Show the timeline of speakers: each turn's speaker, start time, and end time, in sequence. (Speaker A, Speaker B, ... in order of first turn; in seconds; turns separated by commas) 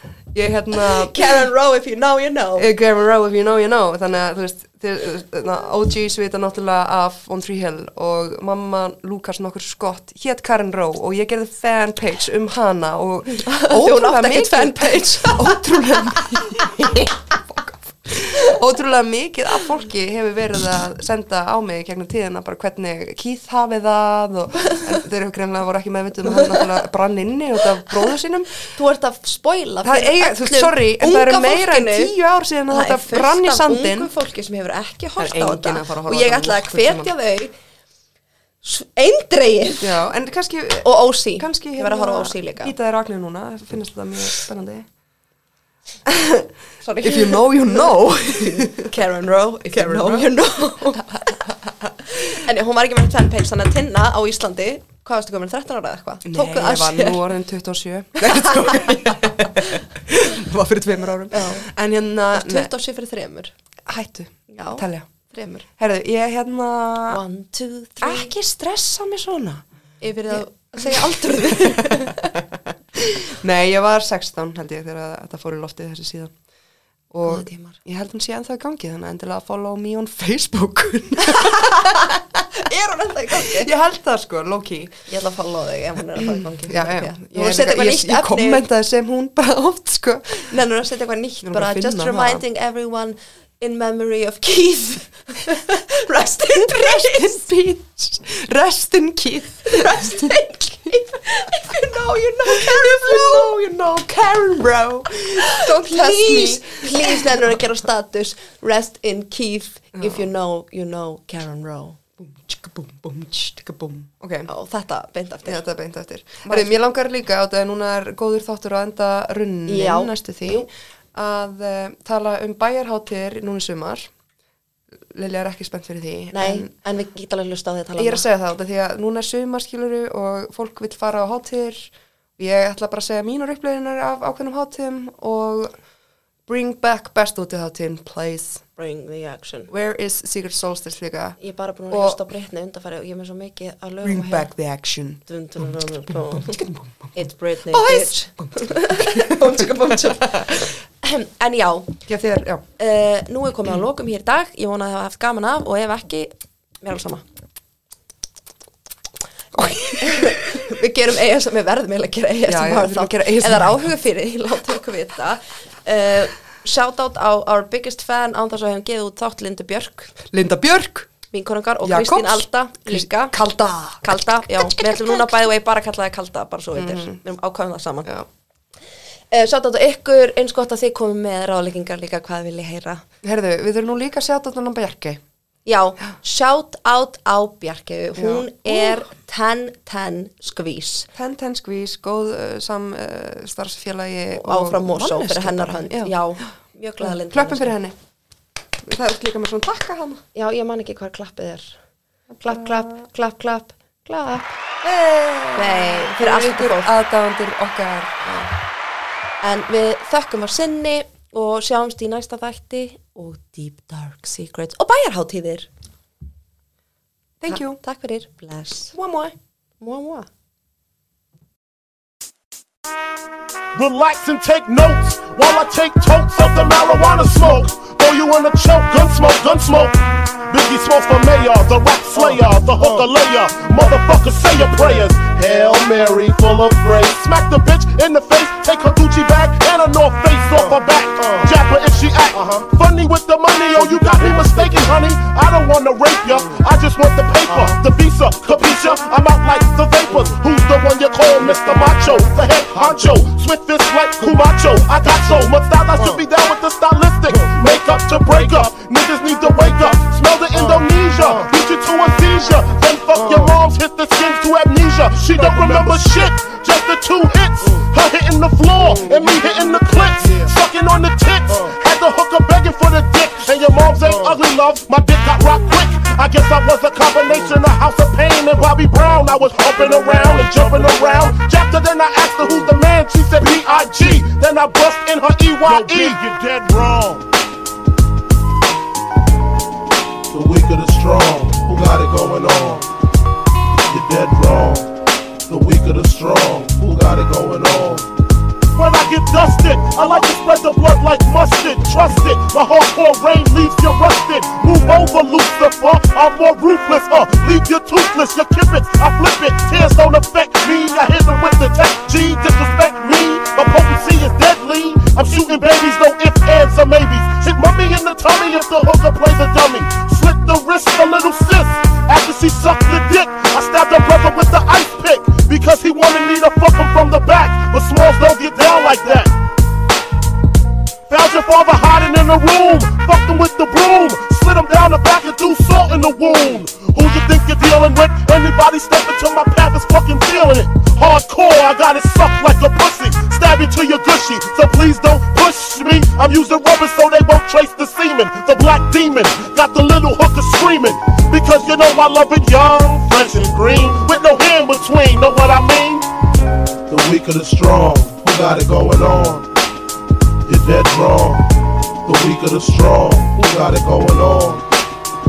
Speaker A: 0.3-1.2, Speaker B: 0.8-2.7, Speaker A: 2.6-28.7, Speaker B: 13.3-17.2, Speaker B: 24.6-25.0, Speaker B: 26.2-26.8, Speaker B: 28.7-32.1, Speaker A: 29.8-34.1, Speaker B: 32.7-37.5, Speaker A: 35.2-37.1, Speaker B: 38.6-40.0, Speaker A: 39.8-44.9, Speaker B: 40.8-42.7, Speaker A: 46.0-46.4, Speaker B: 46.8-57.3, Speaker A: 47.0-49.0, Speaker A: 49.7-51.0, Speaker A: 56.2-62.7, Speaker B: 58.2-59.8, Speaker B: 61.3-61.7, Speaker B: 62.3-63.5, Speaker A: 63.9-65.1, Speaker B: 64.5-65.7, Speaker A: 65.8-67.2, Speaker B: 67.1-68.3, Speaker A: 68.0-69.6, Speaker B: 70.0-72.4, Speaker A: 70.3-72.4, Speaker A: 73.0-76.3, Speaker A: 77.1-82.7, Speaker B: 77.2-77.8, Speaker B: 81.3-83.7, Speaker A: 83.3-85.0, Speaker B: 85.1-88.6, Speaker A: 86.2-90.5, Speaker B: 90.5-97.5, Speaker A: 91.4-92.4, Speaker A: 96.5-100.9, Speaker B: 99.7-103.6, Speaker A: 102.5-107.6, Speaker B: 105.1-112.0, Speaker A: 109.9-110.3, Speaker A: 112.2-114.5, Speaker B: 114.5-115.6, Speaker A: 115.4-124.1, Speaker B: 119.7-120.7, Speaker A: 124.9-126.7, Speaker B: 126.3-128.2, Speaker A: 128.0-135.7, Speaker A: 136.5-138.6, Speaker B: 138.8-139.7, Speaker A: 139.7-141.4, Speaker B: 141.4-144.5, Speaker A: 141.9-142.2, Speaker A: 144.0-145.2, Speaker B: 145.2-152.0, Speaker A: 146.1-147.1, Speaker A: 147.7-150.6, Speaker A: 152.1-152.6, Speaker B: 152.8-157.2, Speaker A: 159.5-160.4, Speaker B: 159.6-170.1, Speaker A: 162.5-163.9, Speaker A: 170.2-171.1, Speaker B: 171.3-173.3, Speaker A: 171.8-175.5, Speaker B: 174.0-178.2, Speaker A: 176.7-177.2, Speaker B: 179.3-183.0, Speaker A: 183.2-185.2, Speaker B: 185.7-191.1, Speaker A: 188.2-189.1, Speaker A: 191.1-196.2, Speaker B: 194.3-197.8, Speaker A: 197.0-197.9, Speaker A: 198.8-200.2, Speaker B: 200.3-201.8, Speaker B: 202.3-204.5, Speaker A: 202.5-202.8, Speaker A: 204.8-208.5, Speaker B: 205.5-206.9, Speaker B: 209.4-215.7, Speaker A: 217.4-217.8, Speaker B: 217.5-218.9, Speaker A: 218.9-219.3, Speaker B: 219.8-220.3, Speaker C: 223.7-287.2, Speaker C: 290.3-292.9, Speaker C: 293.9-294.9, Speaker C: 295.5-298.1, Speaker C: 298.7-329.3, Speaker C: 331.1-356.1, Speaker C: 356.9-359.5, Speaker C: 360.4-361.5, Speaker C: 362.0-364.6